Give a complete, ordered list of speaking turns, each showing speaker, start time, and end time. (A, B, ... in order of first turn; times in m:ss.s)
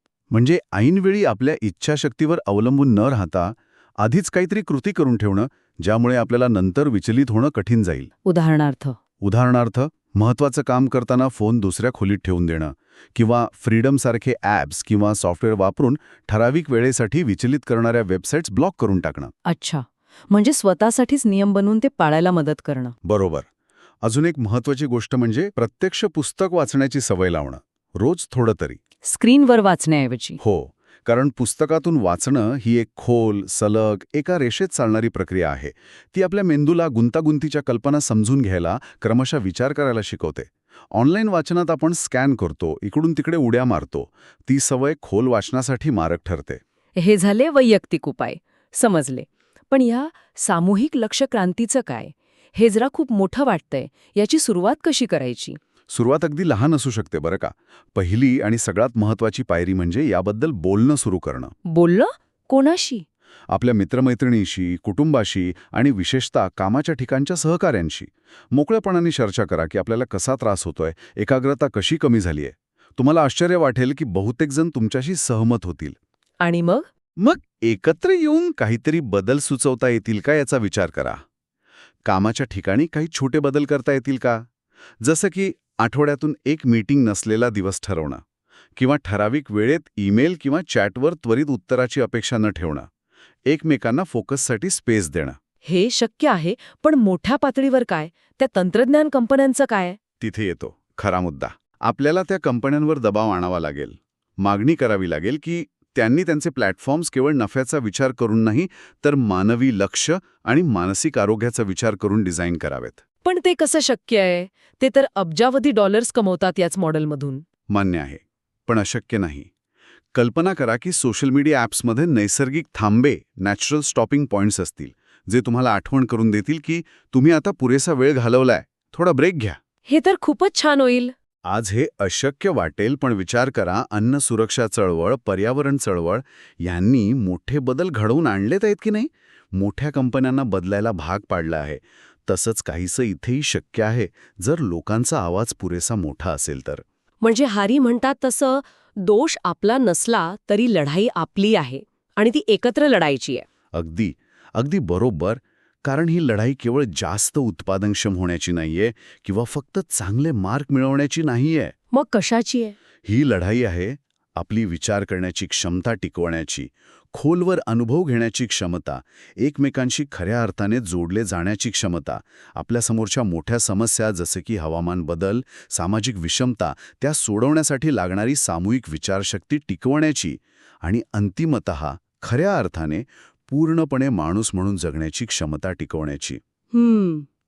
0:00.3-0:08.1 A
0:08.2-0:09.0 B
0:09.2-0:19.3 A
0:19.4-0:22.9 B
0:23.0-0:23.5 A
0:24.0-0:28.8 A
0:29.0-0:30.4 B
0:30.4-0:46.6 A
0:47.0-0:55.6 B
0:55.9-1:01.5 A
1:01.6-1:03.0 B
1:03.5-1:16.0 A
1:16.4-1:16.9 B
1:17.2-1:21.2 A
1:22.0-1:24.4 A
1:25.0-1:28.2 A
1:28.8-1:32.9 A
1:33.5-1:35.4 A
1:35.6-1:40.0 B
1:40.2-1:53.0 A
1:53.2-1:57.4 B
1:57.7-1:59.5 A
2:00.1-2:09.6 A
2:09.9-2:11.1 B
2:11.4-2:26.8 A
2:27.2-2:33.4 B
2:33.7-2:41.7 A
2:41.9-2:42.8 B
2:43.0-3:06.4 A
3:06.7-3:07.2 B